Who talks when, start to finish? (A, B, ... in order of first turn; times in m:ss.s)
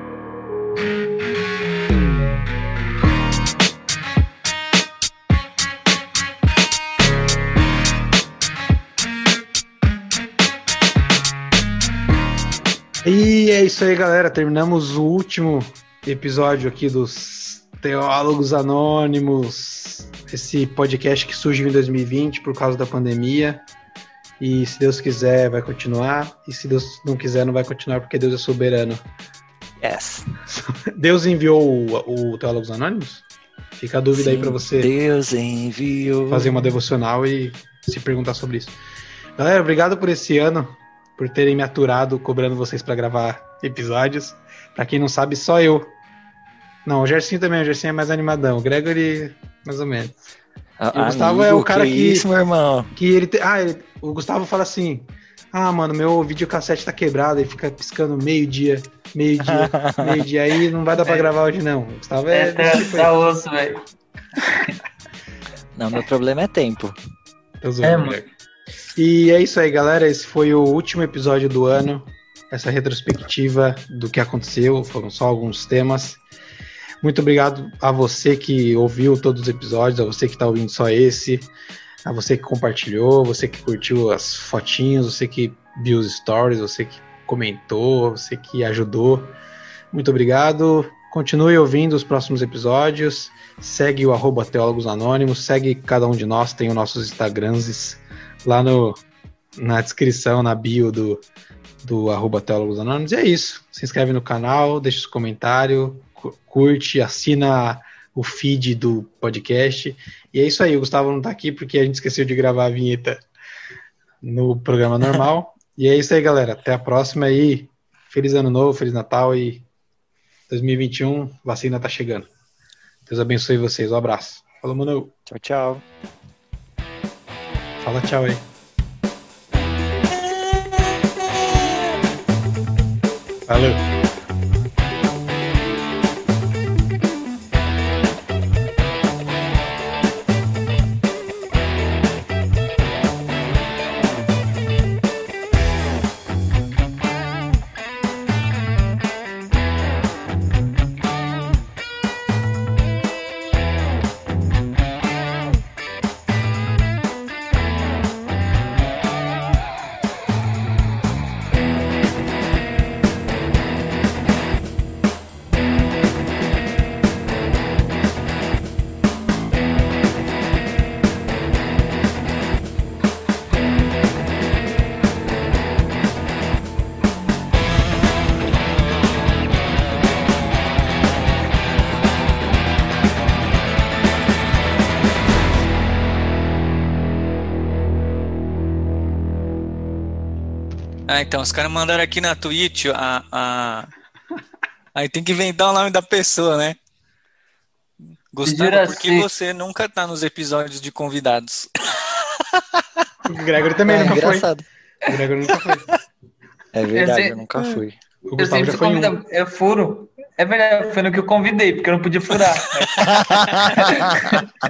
0:13.0-0:23.6 A
0:24.4-0:29.0 A
0:29.8-0:30.3 B
0:30.5-0:33.2 A
0:33.8-0:34.9 A
0:34.1-0:36.5 B
0:36.3-0:38.8 A
0:39.4-0:45.9 A
0:46.8-0:50.2 A
0:50.8-0:52.9 B
0:50.9-0:52.3 A
0:52.9-1:03.2 A
0:59.4-1:00.2 B
1:01.0-1:01.3 C
1:02.3-1:03.8 C
1:04.4-1:04.7 C
1:05.8-1:07.0 B
1:07.6-1:08.3 A
1:07.8-1:08.2 C
1:08.9-1:16.2 A
1:17.0-1:21.5 A
1:22.0-1:29.3 A
1:29.9-1:39.0 A
1:39.6-1:41.2 A
1:41.8-1:53.2 A
1:54.2-1:59.6 A
2:00.5-2:02.3 A
2:03.0-2:05.1 A
2:05.3-2:05.8 B
2:07.8-2:08.4 A
2:13.4-2:13.9 A
3:11.1-3:13.9 D
3:14.9-3:16.8 D
3:18.3-3:22.8 D
3:18.5-3:19.3 C
3:23.2-3:24.5 A
3:23.9-3:24.6 B
3:25.0-3:26.0 A
3:26.7-3:28.0 B
3:26.9-3:27.4 C
3:27.7-3:29.1 A
3:28.4-3:34.5 C
3:33.0-3:34.2 B